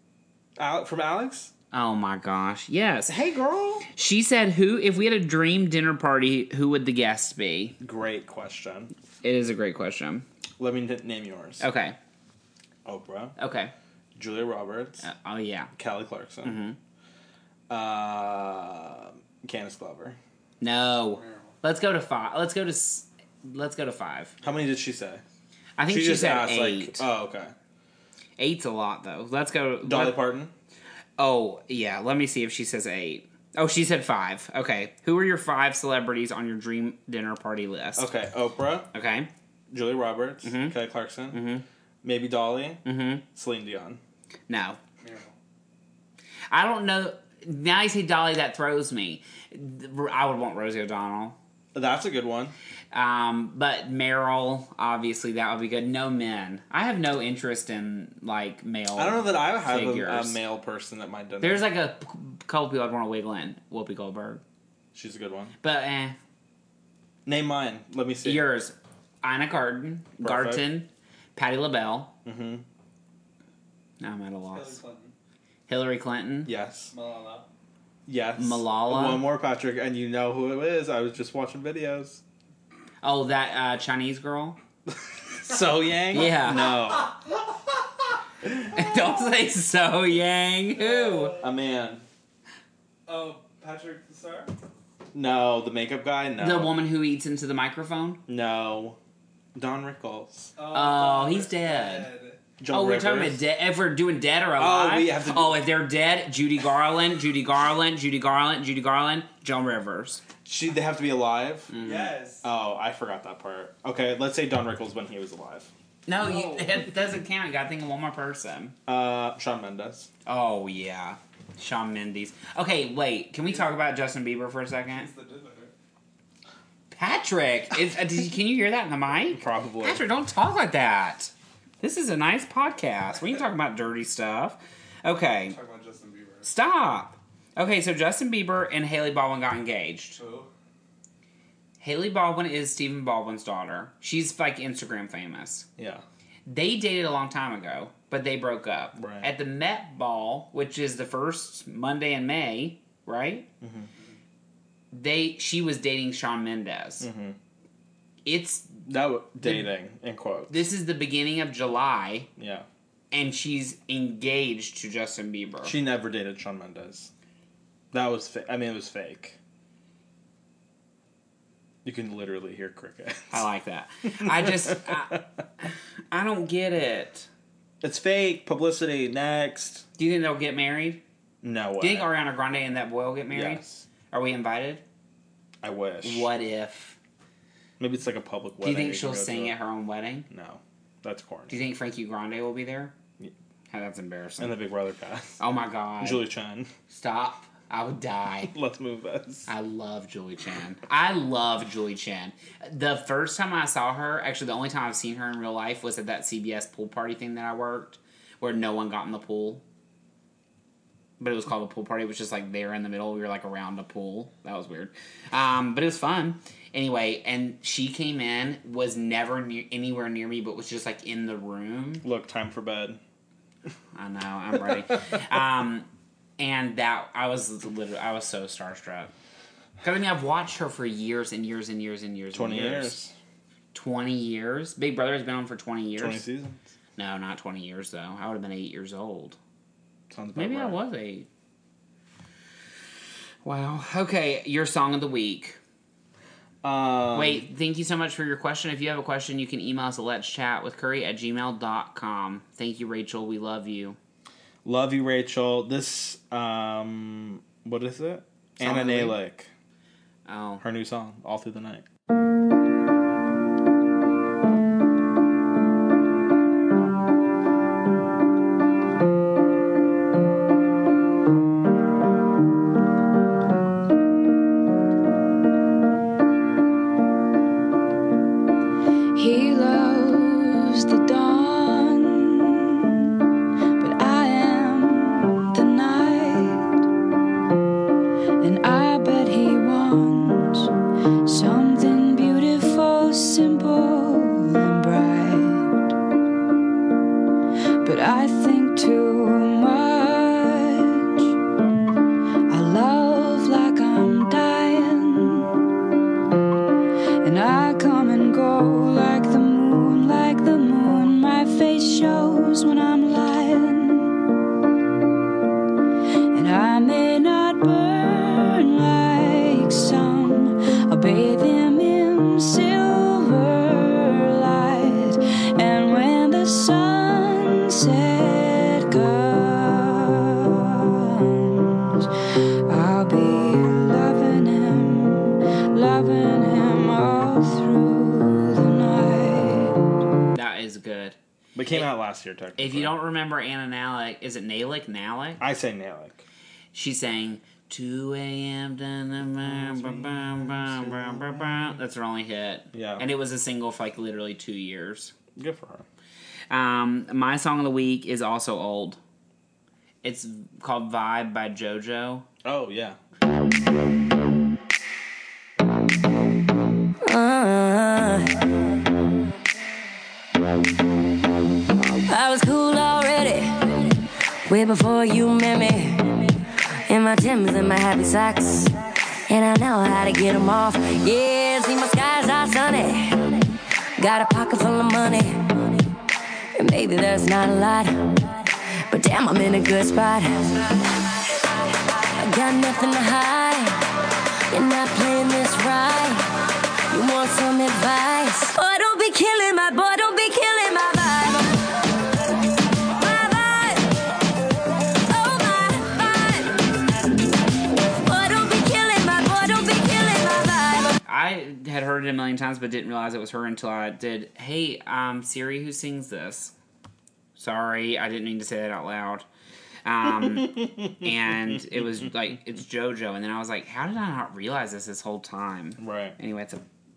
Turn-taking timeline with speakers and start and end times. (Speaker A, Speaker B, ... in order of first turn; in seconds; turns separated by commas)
Speaker A: 0.6-1.5, Speaker B: 1.7-3.1, Speaker A: 3.1-3.9, Speaker B: 3.9-7.8, Speaker A: 7.8-8.9, Speaker B: 9.2-10.2, Speaker A: 10.6-11.6, Speaker B: 11.6-12.0, Speaker A: 12.8-13.3, Speaker B: 13.4-13.7, Speaker A: 14.2-15.0, Speaker B: 15.0-15.7, Speaker A: 15.7-16.6, Speaker B: 16.4-16.8, Speaker A: 17.7-20.2, Speaker B: 20.6-24.3, Speaker C: 21.1-21.5, Speaker A: 24.4-25.2, Speaker B: 25.8-27.0, Speaker A: 25.9-27.5, Speaker B: 28.4-30.2, Speaker A: 29.8-30.5, Speaker B: 31.2-38.1, Speaker A: 38.0-38.9, Speaker B: 38.9-39.3, Speaker A: 39.7-41.4, Speaker B: 40.4-40.8, Speaker B: 41.3-41.6, Speaker A: 42.0-42.8, Speaker B: 42.8-43.2, Speaker A: 43.3-44.0, Speaker B: 44.5-44.8, Speaker C: 45.0-45.3, Speaker B: 46.5-51.4, Speaker A: 51.7-52.5, Speaker B: 52.9-60.4, Speaker A: 59.0-61.6, Speaker B: 61.4-64.4, Speaker A: 64.9-65.5, Speaker B: 65.6-66.2, Speaker A: 67.2-68.5, Speaker B: 68.2-72.1, Speaker A: 70.2-70.6, Speaker A: 72.2-72.6, Speaker B: 74.0-74.8, Speaker C: 74.5-75.1, Speaker B: 75.7-76.5, Speaker A: 76.4-76.9, Speaker C: 76.9-77.5, Speaker A: 78.1-82.2, Speaker B: 78.4-79.2, Speaker B: 83.0-84.6, Speaker A: 85.3-87.2, Speaker B: 86.1-86.7, Speaker B: 88.6-91.4, Speaker C: 90.8-91.5, Speaker A: 91.4-92.0, Speaker C: 93.1-94.5, Speaker A: 95.1-96.8, Speaker B: 96.4-98.2, Speaker A: 98.3-99.0, Speaker A: 99.5-100.5, Speaker C: 100.5-102.4, Speaker B: 100.7-102.1, Speaker A: 102.6-103.4, Speaker B: 102.7-110.2, Speaker A: 104.6-105.6, Speaker A: 110.4-111.8, Speaker B: 111.7-112.1, Speaker C: 111.8-112.5, Speaker A: 112.4-115.7, Speaker B: 116.1-118.7, Speaker C: 116.2-116.8, Speaker A: 118.9-120.1, Speaker B: 120.2-125.1, Speaker C: 124.9-125.7, Speaker B: 126.9-135.6, Speaker A: 129.3-130.0, Speaker C: 135.4-136.5, Speaker B: 136.4-140.2, Speaker C: 140.2-140.5, Speaker B: 141.8-145.7, Speaker A: 145.8-146.0, Speaker B: 146.5-153.5, Speaker A: 148.9-149.3, Speaker A: 153.6-153.9, Speaker B: 154.9-157.1, Speaker A: 157.0-157.4, Speaker B: 158.2-158.7, Speaker A: 158.9-160.7, Speaker B: 160.5-162.3, Speaker A: 162.4-162.7, Speaker B: 163.1-165.8, Speaker A: 165.6-167.1, Speaker A: 167.9-169.4, Speaker A: 171.8-173.5, Speaker B: 173.3-177.3, Speaker A: 174.1-175.2, Speaker A: 177.8-179.8, Speaker B: 180.0-181.0, Speaker A: 181.4-182.1, Speaker B: 181.8-184.8, Speaker A: 183.3-183.8, Speaker A: 185.6-186.3, Speaker B: 186.0-187.0, Speaker A: 187.8-189.6, Speaker B: 188.6-190.3, Speaker A: 190.3-191.6, Speaker B: 191.5-192.9, Speaker B: 193.7-194.6, Speaker A: 194.4-195.4, Speaker B: 195.4-196.2, Speaker A: 196.0-196.7, Speaker B: 196.9-198.5, Speaker A: 198.4-199.5, Speaker B: 199.5-209.6, Speaker B: 211.2-222.0, Speaker A: 222.0-223.0, Speaker B: 223.9-229.1, Speaker B: 229.8-233.0, Speaker A: 232.3-233.1, Speaker B: 233.7-236.2, Speaker A: 236.0-236.6, Speaker B: 236.9-239.4, Speaker A: 240.1-240.8, Speaker B: 240.3-241.3, Speaker B: 243.4-245.6, Speaker A: 246.6-247.4, Speaker B: 247.1-254.0, Speaker A: 254.6-259.5, Speaker B: 258.6-259.2, Speaker B: 260.2-260.6, Speaker A: 260.6-261.8, Speaker D: 279.1-283.1, Speaker D: 283.8-286.8, Speaker D: 288.4-290.7, Speaker D: 291.2-295.7, Speaker D: 297.8-301.3, Speaker D: 302.5-305.6, Speaker D: 307.2-314.1, Speaker D: 316.3-332.1, Speaker D: 332.7-339.8, Speaker B: 340.3-341.2, Speaker A: 341.5-342.9, Speaker B: 342.6-345.4, Speaker A: 345.4-346.2, Speaker B: 346.7-355.1, Speaker A: 349.4-351.7, Speaker A: 352.7-353.1, Speaker A: 355.3-355.8, Speaker B: 356.5-359.0, Speaker B: 360.0-362.2, Speaker A: 362.4-363.0, Speaker E: 367.0-368.4, Speaker E: 372.1-373.9, Speaker E: 374.5-378.7, Speaker E: 379.3-383.5, Speaker E: 384.0-385.8, Speaker E: 386.5-388.2, Speaker E: 388.9-390.5, Speaker E: 392.2-393.8, Speaker E: 394.5-396.2, Speaker E: 396.9-401.7, Speaker E: 402.9-403.9, Speaker E: 405.1-406.7, Speaker E: 407.8-410.9, Speaker B: 411.1-416.5, Speaker B: 417.4-419.2, Speaker B: 419.8-426.6, Speaker A: 420.4-420.9, Speaker A: 425.8-426.1